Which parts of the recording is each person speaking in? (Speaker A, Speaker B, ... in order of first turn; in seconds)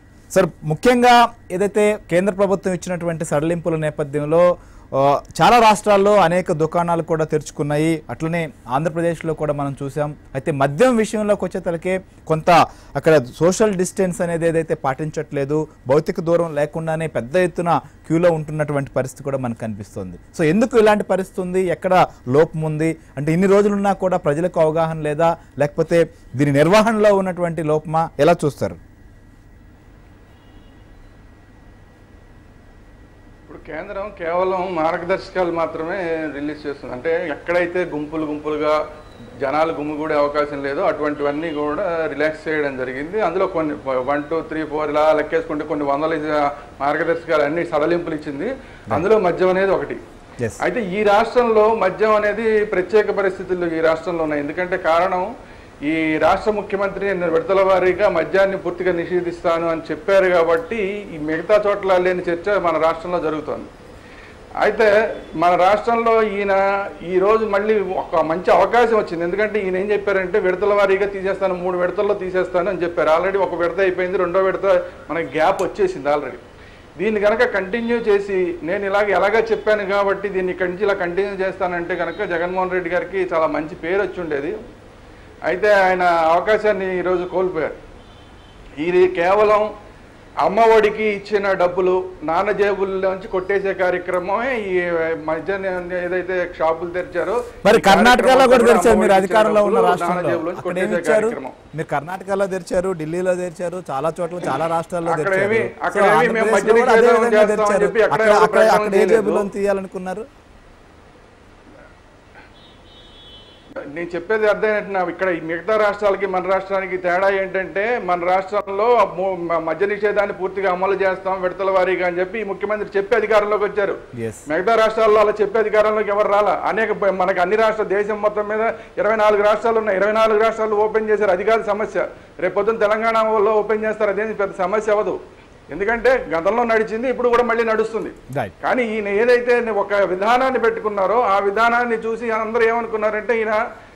Speaker A: 0.3-28.8, 97.7-110.3, 124.2-124.5
Speaker B: 33.5-38.8, 39.4-50.0, 50.6-55.3, 55.9-63.7, 64.6-76.4, 77.0-84.5, 85.5-87.8, 88.8-89.7, 90.4-101.5, 105.0-109.5, 114.0-135.2, 135.7-143.6